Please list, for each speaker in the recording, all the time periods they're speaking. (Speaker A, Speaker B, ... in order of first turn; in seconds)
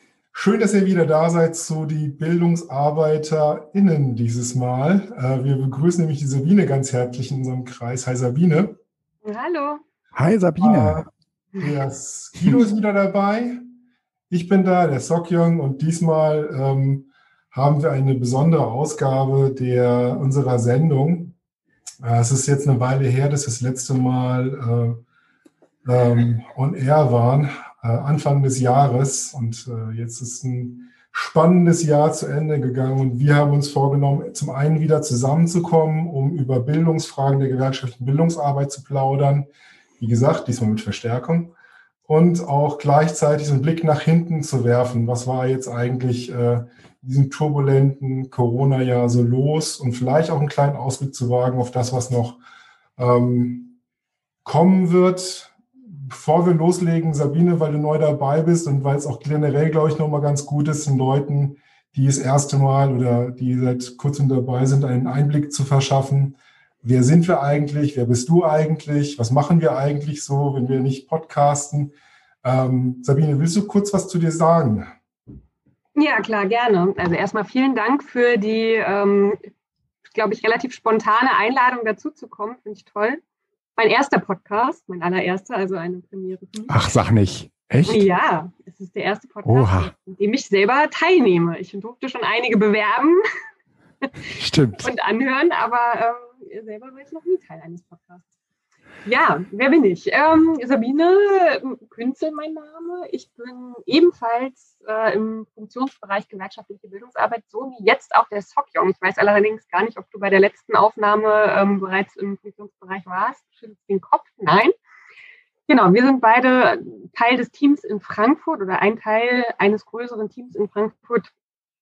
Speaker A: 0.3-8.8, 10.6-13.6, 14.3-21.4, 22.0-25.0, 25.9-39.5, 40.0-41.5, 42.1-52.4, 53.0-53.8, 54.5-74.9
Speaker B: 9.2-9.8, 76.0-79.5, 80.1-83.2, 83.8-86.8, 87.9-93.2, 94.8-98.3, 99.0-114.7, 115.7-121.3
Speaker C: 10.1-11.0, 86.7-88.0, 89.5-89.9, 94.3-94.9